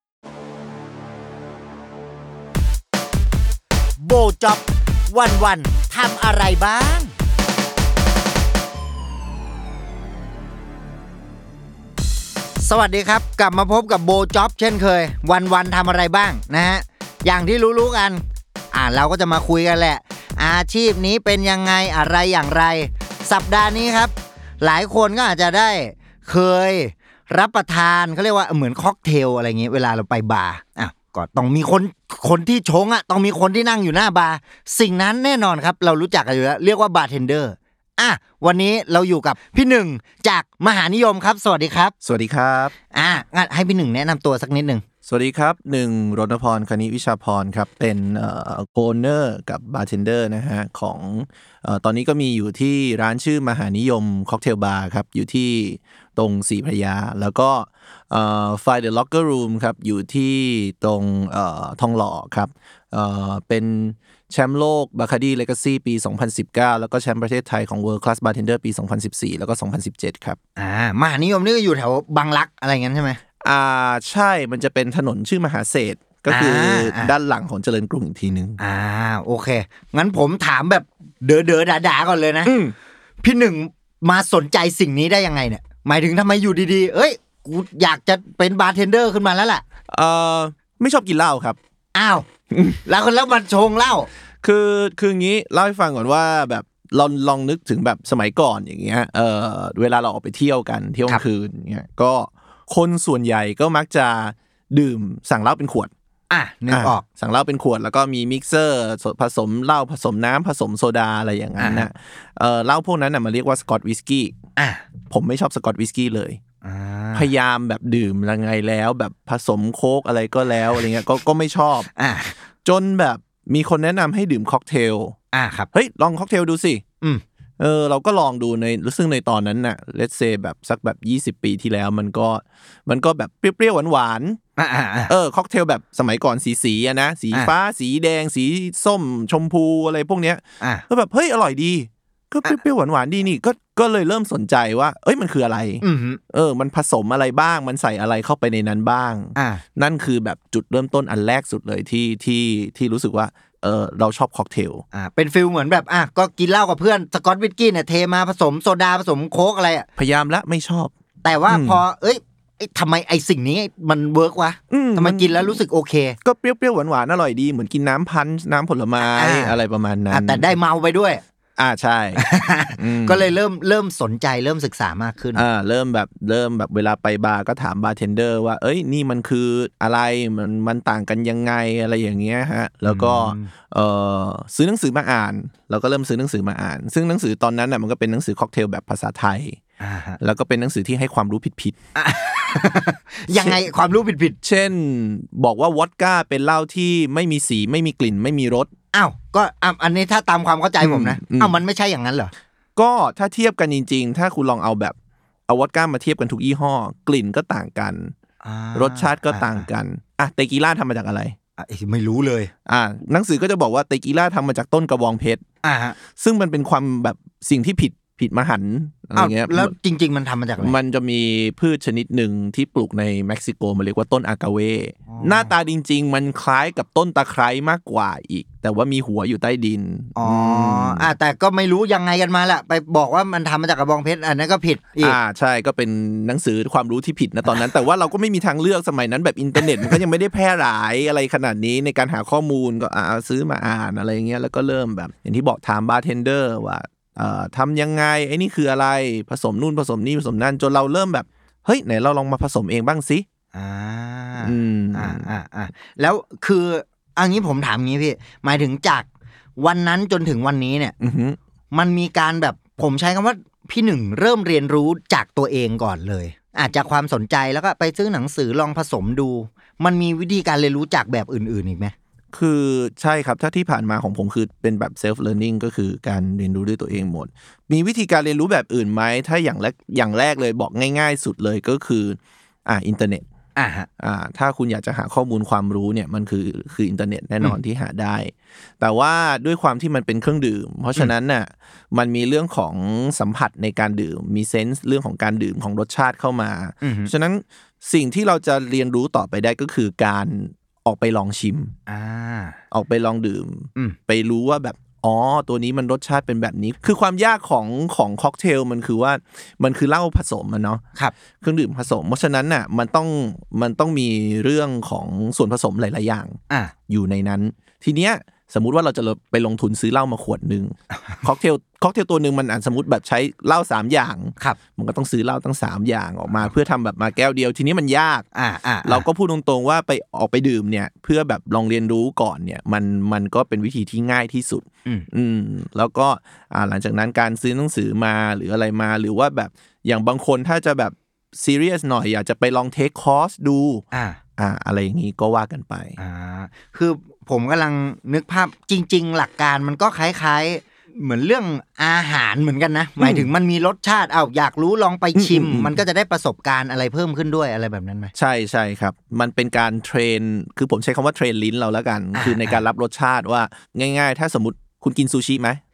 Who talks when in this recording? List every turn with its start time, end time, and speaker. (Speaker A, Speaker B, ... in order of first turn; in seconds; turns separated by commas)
Speaker A: 4.0-7.1, Speaker A: 12.6-41.9, Speaker B: 42.0-42.7, Speaker A: 42.9-44.8, Speaker B: 45.1-70.4, Speaker A: 70.6-73.2, Speaker B: 73.4-78.6, Speaker A: 76.3-77.1, Speaker A: 78.6-82.5, Speaker B: 82.5-82.7, Speaker A: 83.2-89.6, Speaker B: 89.9-91.6, Speaker A: 92.0-92.3, Speaker B: 92.5-92.8, Speaker A: 92.8-94.1, Speaker B: 94.4-105.9, Speaker A: 106.3-107.0, Speaker B: 106.7-114.4, Speaker A: 111.6-111.9, Speaker A: 114.6-114.8, Speaker B: 115.1-116.4, Speaker A: 116.6-117.3, Speaker B: 117.2-121.9, Speaker A: 122.0-122.4, Speaker B: 122.7-125.2, Speaker A: 125.3-125.7, Speaker B: 125.7-126.8, Speaker B: 127.6-134.4, Speaker A: 134.6-135.1, Speaker B: 135.1-154.8, Speaker A: 145.8-146.2, Speaker A: 149.4-149.6, Speaker A: 154.9-159.9, Speaker B: 160.0-160.9, Speaker A: 161.2-166.2, Speaker B: 161.5-161.8, Speaker B: 164.7-165.6, Speaker B: 166.2-170.5, Speaker A: 169.0-169.6, Speaker A: 170.1-171.2, Speaker B: 171.6-172.2, Speaker A: 172.2-175.4, Speaker B: 172.8-173.2, Speaker B: 175.3-189.6, Speaker A: 182.9-183.5, Speaker A: 189.8-190.2, Speaker B: 190.2-191.8, Speaker A: 191.9-194.4, Speaker B: 193.3-193.6, Speaker B: 194.4-198.7, Speaker A: 198.9-202.3, Speaker B: 200.8-201.6, Speaker B: 202.8-205.0, Speaker B: 205.5-208.2, Speaker A: 208.4-209.7, Speaker B: 208.8-211.4, Speaker A: 211.6-212.5, Speaker B: 212.7-215.4, Speaker A: 215.6-216.0, Speaker B: 216.1-219.7, Speaker A: 219.2-220.8, Speaker B: 220.6-231.1, Speaker A: 225.1-225.5, Speaker A: 230.2-235.2, Speaker B: 235.0-253.3, Speaker A: 253.5-260.9, Speaker B: 254.4-255.3, Speaker B: 261.0-261.4, Speaker A: 261.7-271.9, Speaker B: 272.3-283.2, Speaker A: 283.6-283.9, Speaker B: 284.0-301.8, Speaker A: 296.8-297.1, Speaker A: 301.9-302.6, Speaker B: 302.7-310.8, Speaker B: 311.4-328.3, Speaker A: 320.9-321.2, Speaker A: 328.3-329.1, Speaker B: 328.9-343.9, Speaker A: 343.9-344.2, Speaker B: 344.4-346.0, Speaker A: 346.0-358.1, Speaker B: 353.0-353.3, Speaker B: 355.1-355.8, Speaker B: 358.2-365.6, Speaker A: 362.1-362.6